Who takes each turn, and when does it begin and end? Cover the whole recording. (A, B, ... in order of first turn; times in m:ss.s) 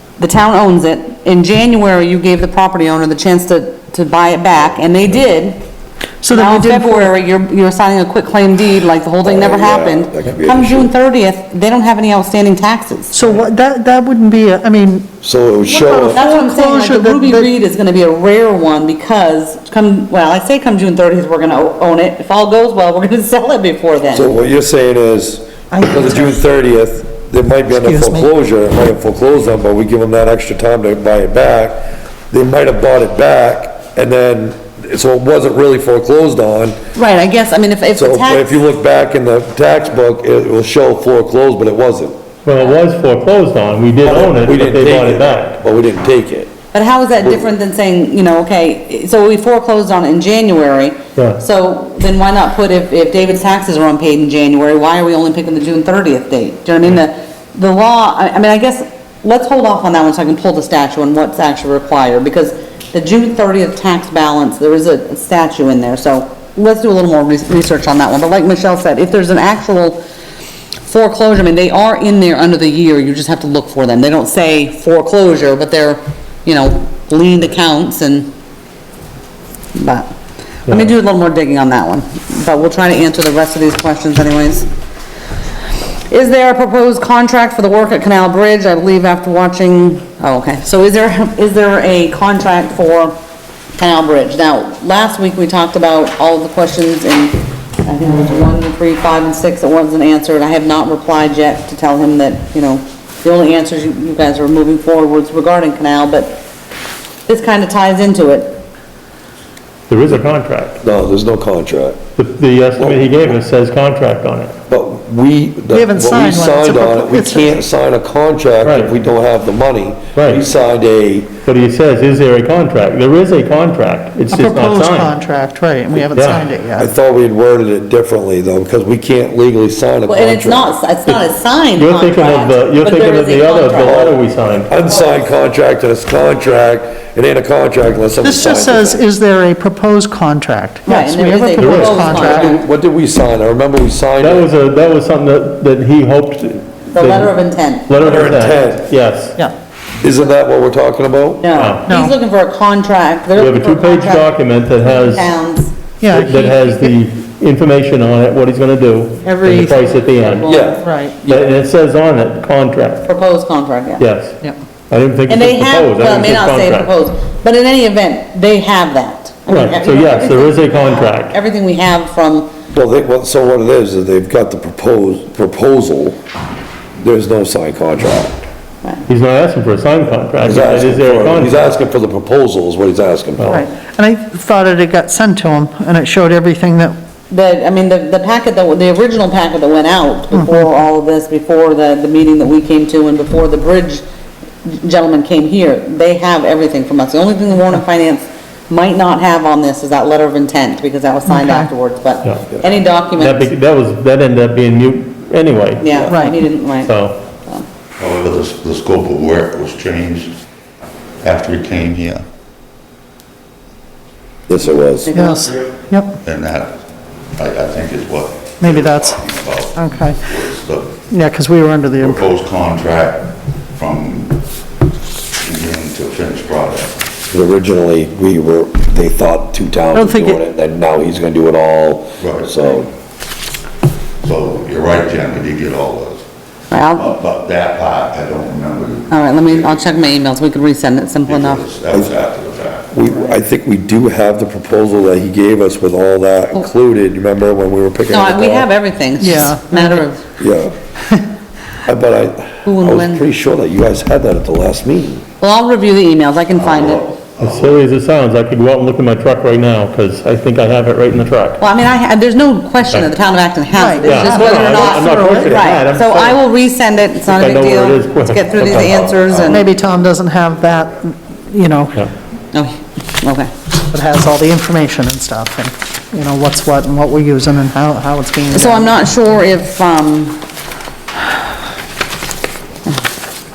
0:00.2-0:05.6 A
0:06.2-0:07.1 B
0:06.3-0:13.2 A
0:09.2-0:10.9 C
0:13.1-0:15.1 B
0:15.2-0:16.2 C
0:15.6-0:17.5 B
0:16.1-0:24.3 A
0:24.1-0:36.8 C
0:25.7-0:26.4 B
0:27.7-0:28.3 B
0:37.0-0:38.6 A
0:38.0-0:42.2 C
0:42.4-0:45.6 D
0:44.0-0:46.5 C
0:46.7-1:10.0 A
0:47.2-0:47.5 C
0:51.2-0:51.4 D
1:10.8-1:18.3 A
1:19.8-1:20.1 A
1:20.7-1:24.7 A
1:26.1-1:33.2 A
1:33.8-1:46.4 A
1:47.3-1:48.6 A
1:49.9-1:50.8 D
1:50.8-1:52.0 C
1:52.2-1:54.5 D
1:52.8-1:53.4 C
1:54.7-2:01.4 C
1:55.7-1:57.6 B
1:58.6-1:58.9 D
2:00.2-2:00.4 D
2:01.5-2:05.1 D
2:04.3-2:06.9 B
2:06.1-2:06.5 D
2:06.8-2:10.8 C
2:10.1-2:14.1 A
2:11.1-2:14.7 D
2:13.8-2:14.2 C
2:14.7-2:19.0 C
2:14.9-2:15.2 A
2:18.2-2:22.6 B
2:20.9-2:22.6 A
2:21.6-2:22.1 D
2:22.0-2:24.5 C
2:24.2-2:29.4 D
2:26.9-2:27.9 A
2:27.9-2:28.9 C
2:30.0-2:31.5 C
2:31.4-2:35.7 A
2:31.6-2:31.9 D
2:31.9-2:32.2 B
2:33.4-2:35.3 D
2:36.0-2:37.0 B
2:36.1-2:40.6 D
2:39.2-2:40.0 B
2:40.1-2:40.9 A
2:40.4-2:41.6 C
2:40.8-2:41.2 B
2:41.2-2:43.1 D
2:43.0-2:44.0 A
2:44.0-2:44.4 D
2:44.9-2:46.9 D
2:45.3-2:52.5 A
2:49.5-2:51.3 D
2:52.7-2:56.2 C
2:57.0-2:58.5 C
2:59.1-3:01.6 D
3:00.4-3:03.6 C
3:03.4-3:03.6 D
3:03.5-3:07.0 B
3:07.3-3:14.0 A
3:10.3-3:10.6 B
3:14.6-3:23.5 A
3:21.3-3:21.7 B
3:23.1-3:25.9 D
3:25.8-3:27.6 A
3:26.1-3:26.4 B
3:26.8-3:27.2 D
3:28.0-3:30.3 E
3:31.2-3:32.2 E
3:34.5-3:35.2 C
3:35.1-3:35.6 A
3:35.1-3:36.2 B
3:35.7-3:36.8 E
3:37.4-3:41.0 E
3:38.6-3:40.3 B
3:41.1-3:42.4 B
3:42.0-3:44.4 E
3:45.4-3:47.0 E
3:47.3-3:52.9 C
3:50.0-3:50.4 B
3:52.2-3:52.5 E
3:54.2-3:56.2 E
3:56.7-3:57.1 A
3:56.9-4:00.0 E
3:59.1-4:01.6 A
4:01.2-4:02.9 E
4:02.9-4:08.7 C
4:08.1-4:10.2 A
4:09.2-4:10.0 B
4:10.4-4:10.7 C
4:11.8-4:15.2 C
4:12.6-4:13.2 A
4:15.4-4:17.1 A
4:16.5-4:17.8 E
4:17.4-4:21.6 D
4:21.6-4:29.7 A
4:23.7-4:25.7 B
4:24.0-4:26.4 D
4:27.2-4:29.0 D
4:28.6-4:31.0 E
4:29.5-4:32.0 B
4:32.5-4:33.5 A
4:33.9-4:39.0 B
4:38.5-4:40.4 A